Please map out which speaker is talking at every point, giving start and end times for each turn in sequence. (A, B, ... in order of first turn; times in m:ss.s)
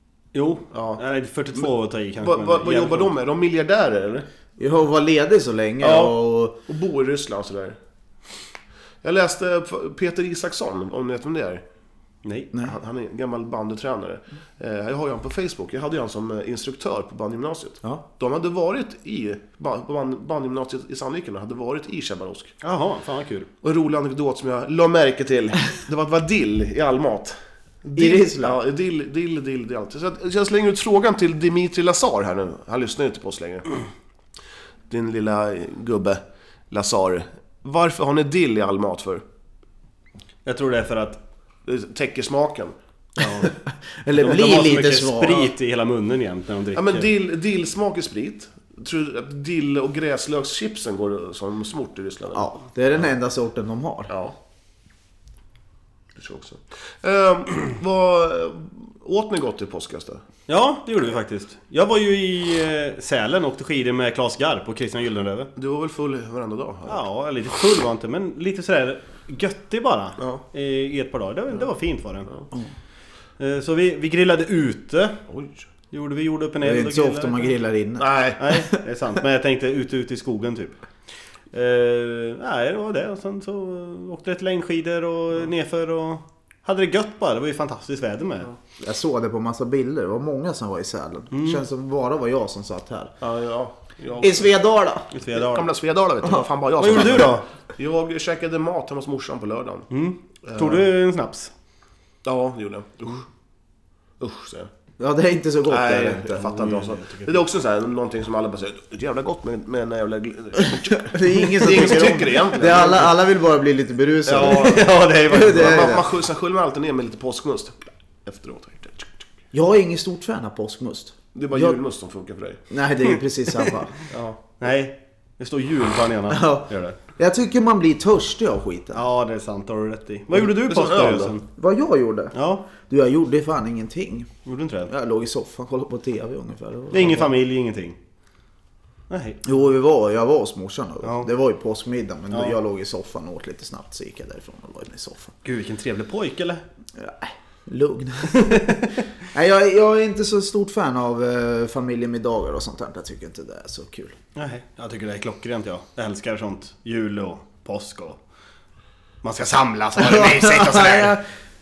0:00.3-0:03.1 A
0:00.7-0:01.0 B
0:01.5-0:04.2 B
0:04.6-0:06.6 C
0:05.8-0:07.8 B
0:09.0-0:11.6 B
0:12.2-0:12.5 A
0:12.6-0:22.6 B
0:22.6-0:23.5 A
0:23.6-0:33.6 B
0:27.9-0:28.6 C
0:34.9-0:36.2 B
0:36.7-0:39.2 B
0:40.4-0:41.2 A
0:41.6-0:42.7 B
0:43.2-0:43.5 A
0:43.7-0:45.5 C
0:44.1-0:47.1 A
0:46.7-0:52.5 B
0:52.3-0:54.1 C
0:54.1-0:54.4 B
0:56.2-1:00.2 B
1:00.5-1:05.5 A
1:05.6-1:07.0 B
1:06.9-1:12.3 A
1:10.2-1:10.4 B
1:13.4-1:15.2 A
1:15.3-1:15.6 B
1:15.9-1:17.5 A
1:16.6-1:18.8 C
1:18.0-1:18.4 B
1:18.4-1:20.8 A
1:21.5-1:28.5 A
1:28.8-1:33.1 C
1:31.3-1:31.6 A
1:33.2-1:34.5 B
1:34.2-1:35.1 C
1:35.1-1:35.7 A
1:35.3-1:39.9 B
1:36.2-1:37.2 C
1:36.8-1:37.4 A
1:39.9-1:41.5 A
1:40.4-1:40.8 B
1:42.2-1:43.2 B
1:44.2-1:44.7 B
1:45.0-1:46.6 C
1:45.7-1:53.1 B
1:46.6-1:47.3 A
1:50.9-1:56.0 C
1:54.2-1:59.2 B
1:54.3-1:55.8 A
1:59.5-2:01.8 C
2:01.3-2:02.6 B
2:02.7-2:03.9 C
2:04.1-2:04.4 B
2:04.6-2:07.0 A
2:06.3-2:09.0 C
2:08.9-2:11.4 A
2:10.4-2:11.3 B
2:11.6-2:14.3 C
2:12.3-2:12.6 A
2:14.4-2:14.9 A
2:14.9-2:17.3 C
2:16.9-2:18.0 A
2:19.1-2:19.4 A
2:19.4-2:25.3 C
2:21.0-2:21.3 A
2:25.4-2:26.6 A
2:27.0-2:28.6 C
2:28.4-2:28.9 A
2:29.3-2:34.2 C
2:34.4-2:38.2 A
2:39.2-2:41.1 A
2:40.0-2:41.2 C